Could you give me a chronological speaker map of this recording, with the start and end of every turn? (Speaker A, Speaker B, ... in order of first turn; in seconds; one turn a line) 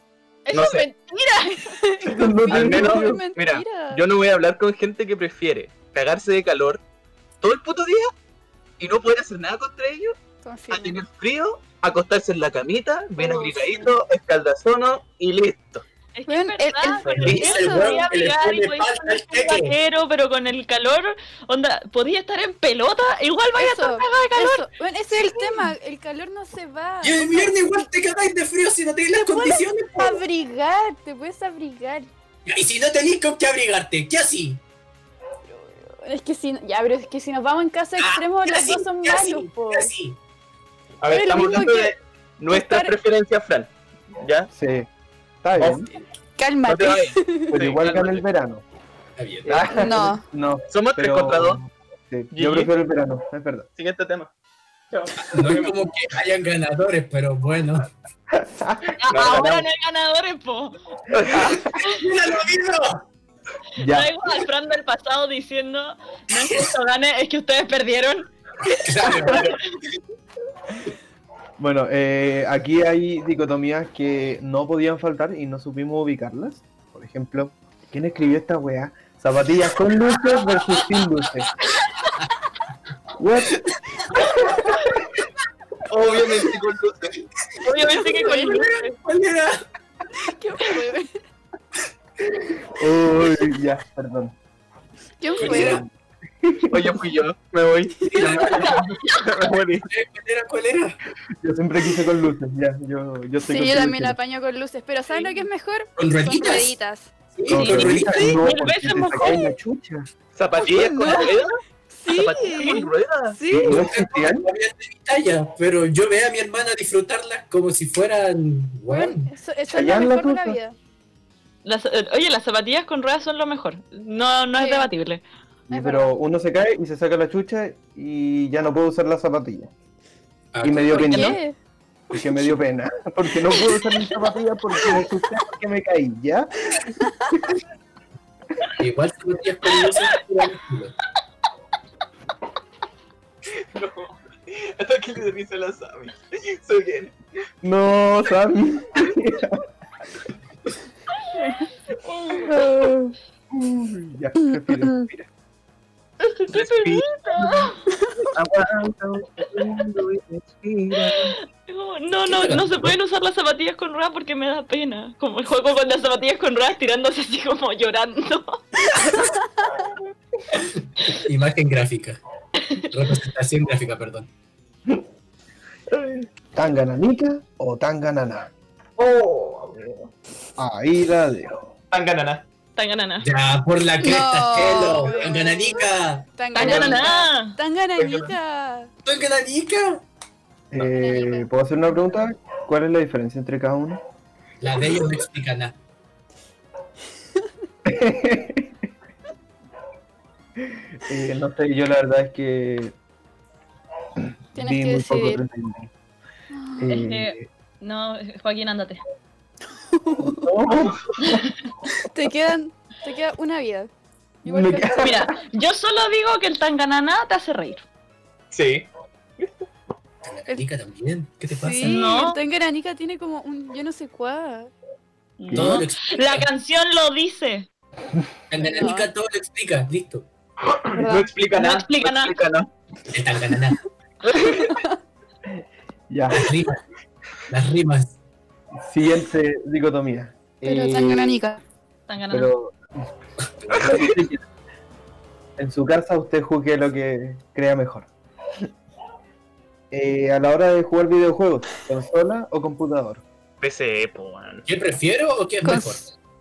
Speaker A: 0.5-0.8
Speaker B: 0.5-0.9
Speaker C: 0.5-4.0
Speaker D: 2.0-3.2
Speaker B: 2.5-6.8
Speaker B: 7.4-8.1
Speaker B: 8.8-10.2
Speaker C: 10.4-11.0
Speaker B: 10.7-15.8
Speaker C: 13.2-13.9
Speaker A: 16.1-25.6
Speaker C: 16.3-18.0
Speaker B: 17.1-17.4
Speaker E: 17.2-19.8
Speaker C: 23.6-27.8
Speaker E: 27.0-30.2
Speaker C: 29.2-32.1
Speaker E: 32.5-34.6
Speaker C: 35.5-39.9
Speaker E: 38.0-40.2
Speaker B: 41.0-44.5
Speaker C: 41.1-41.9
Speaker C: 42.5-42.9
Speaker D: 44.5-44.9
Speaker D: 45.4-45.9
Speaker B: 45.6-45.9
Speaker C: 46.4-47.6
Speaker B: 46.6-48.2
Speaker D: 47.5-48.6
Speaker E: 49.2-49.6
Speaker D: 49.5-53.7
Speaker C: 49.7-50.2
Speaker B: 50.7-51.6
Speaker B: 52.3-52.7
Speaker B: 53.8-54.3
Speaker B: 54.9-55.8
Speaker E: 55.3-57.9
Speaker D: 58.3-58.9
Speaker A: 59.0-60.8
Speaker B: 59.1-59.6
Speaker B: 61.1-61.7
Speaker E: 61.7-63.0
Speaker D: 63.8-64.1
Speaker A: 63.8-68.3
Speaker E: 68.7-69.6
Speaker B: 69.2-69.5
Speaker D: 71.6-81.5
Speaker D: 83.2-83.6
Speaker D: 84.2-84.7
Speaker E: 84.2-84.5
Speaker B: 85.9-87.2
Speaker A: 87.6-89.0
Speaker E: 88.1-89.6
Speaker C: 88.2-88.6
Speaker C: 90.2-91.1
Speaker D: 92.7-94.3
Speaker C: 95.2-95.8
Speaker E: 95.4-95.8
Speaker D: 95.4-95.9
Speaker D: 96.4-97.0
Speaker B: 96.7-99.9
Speaker E: 98.1-99.0
Speaker A: 98.4-99.2
Speaker E: 99.9-101.0
Speaker D: 101.4-104.2
Speaker C: 103.5-107.1
Speaker E: 106.0-106.8
Speaker E: 107.4-108.4
Speaker D: 107.5-110.1
Speaker A: 107.5-109.5
Speaker B: 110.3-113.4
Speaker C: 110.6-111.4
Speaker C: 111.9-113.8
Speaker D: 113.6-114.5
Speaker E: 113.6-119.3
Speaker C: 118.9-120.8
Speaker D: 119.7-120.6
Speaker A: 121.6-125.2
Speaker C: 124.6-124.9
Speaker D: 125.7-129.7
Speaker C: 125.7-126.1
Speaker E: 130.5-131.4
Speaker D: 130.6-131.4
Speaker C: 130.9-131.6
Speaker D: 132.1-136.5
Speaker E: 138.8-141.0
Speaker B: 143.7-147.2
Speaker D: 147.6-149.6
Speaker C: 152.3-153.2
Speaker D: 153.5-155.3
Speaker C: 154.6-155.1
Speaker A: 156.2-157.8
Speaker B: 156.5-157.1
Speaker B: 158.3-161.3
Speaker A: 161.2-168.6
Speaker E: 162.2-163.0
Speaker E: 170.6-172.2
Speaker A: 172.6-172.9
Speaker E: 172.9-174.3
Speaker D: 176.5-178.5
Speaker B: 179.0-179.9
Speaker D: 180.6-181.7
Speaker B: 181.9-182.4
Speaker A: 182.8-183.3
Speaker E: 183.2-186.2
Speaker C: 184.0-188.9
Speaker A: 186.5-187.6
Speaker D: 186.6-187.0
Speaker B: 188.0-188.3
Speaker E: 189.1-190.0
Speaker D: 190.7-194.0
Speaker C: 190.8-191.5
Speaker E: 194.6-195.8
Speaker D: 197.8-198.8
Speaker D: 200.6-202.9
Speaker D: 204.2-205.9
Speaker C: 204.6-205.4
Speaker C: 206.5-207.0
Speaker D: 206.8-207.5
Speaker A: 207.0-209.0
Speaker C: 209.9-210.5
Speaker D: 210.2-211.4
Speaker C: 212.1-213.9
Speaker C: 214.4-215.3
Speaker D: 214.5-215.3
Speaker A: 215.0-217.8
Speaker B: 218.5-218.9
Speaker B: 219.4-219.7
Speaker E: 220.2-222.1
Speaker C: 221.5-224.7
Speaker A: 221.9-222.4
Speaker A: 225.4-227.7
Speaker D: 225.5-225.8
Speaker E: 225.5-226.5
Speaker E: 228.5-230.3
Speaker C: 228.6-229.1
Speaker B: 230.7-232.7
Speaker C: 231.0-231.3
Speaker A: 231.6-232.4
Speaker E: 233.1-233.8
Speaker B: 234.2-234.8
Speaker D: 236.1-236.5
Speaker E: 236.3-236.8
Speaker E: 237.5-238.2
Speaker D: 238.8-241.4
Speaker C: 240.7-241.6
Speaker A: 242.1-242.5
Speaker D: 242.3-243.1
Speaker D: 243.7-244.5
Speaker D: 245.6-248.1
Speaker D: 249.9-253.2
Speaker B: 253.6-254.7
Speaker E: 254.7-256.1
Speaker C: 255.7-256.0